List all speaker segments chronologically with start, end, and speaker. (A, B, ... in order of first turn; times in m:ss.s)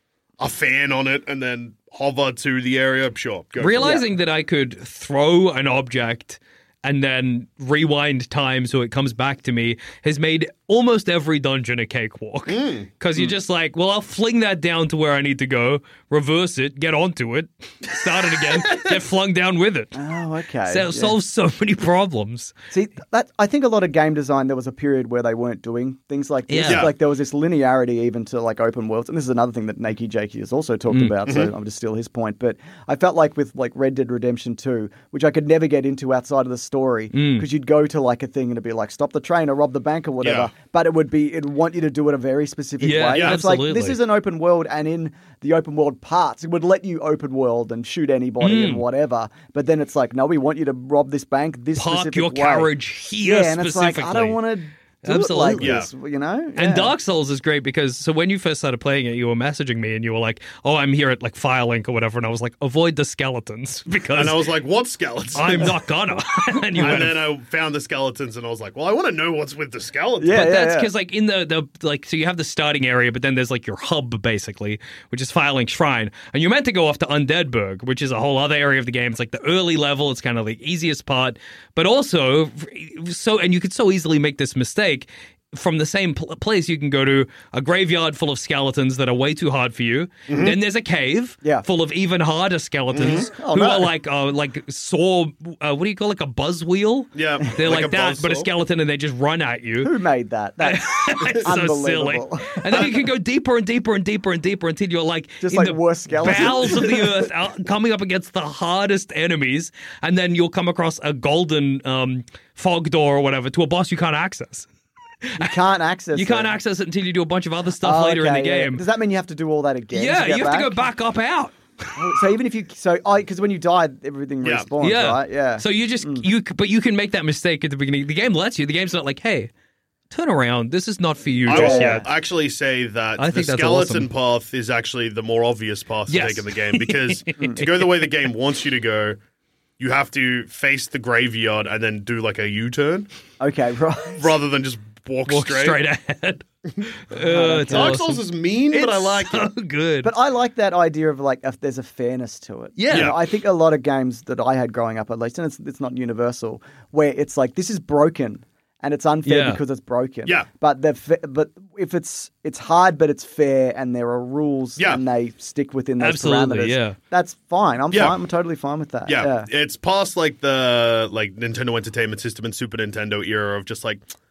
0:00.4-0:04.0 A
0:03.6-0:20.0 B
0:03.8-0:04.0 C
0:12.5-0:12.9 A
0:18.6-0:18.9 A
0:20.0-0:21.2 C
0:20.7-0:22.5 B
0:22.7-0:52.7 C
0:26.5-0:26.9 B
0:31.3-0:31.5 A
0:37.1-0:37.5 B
0:40.2-0:40.5 A
0:42.8-0:44.0 B
0:43.1-0:43.4 A
0:48.4-0:48.8 B
0:51.8-0:54.4 B
0:53.2-0:56.9 C
0:55.0-0:55.8 B
0:55.6-0:55.9 A
0:56.6-1:04.5 B
1:04.1-1:05.8 A
1:05.3-1:07.2 B
1:06.8-1:10.4 A
1:10.2-1:10.9 C
1:10.3-1:40.0 B
1:30.3-1:30.6 A
1:32.9-1:33.3 A
1:33.0-1:33.9 C
1:37.2-1:38.5 A
1:39.8-1:42.9 C
1:40.6-1:54.7 B
1:45.4-1:47.1 C
1:55.2-1:55.6 B
1:55.4-1:56.6 C
1:56.1-1:58.8 B
1:57.8-2:00.8 C
1:59.9-2:02.0 B
2:02.0-2:06.2 C
2:04.8-2:09.5 B
2:10.1-2:12.1 B
2:11.5-2:19.2 A
2:11.5-2:12.1 C
2:13.2-2:14.1 B
2:16.1-2:17.9 B
2:17.4-2:17.6 C
2:19.8-2:23.1 A
2:23.4-2:24.3 C
2:24.2-2:25.8 A
2:25.3-2:26.4 B
2:27.1-2:30.1 B
2:27.1-2:28.0 C
2:27.7-2:29.5 A
2:30.0-2:49.5 C
2:32.8-2:33.2 B
2:32.9-2:33.2 A
2:39.2-2:39.6 B
2:46.0-2:47.0 B
2:47.9-2:48.2 A
2:49.1-2:54.0 A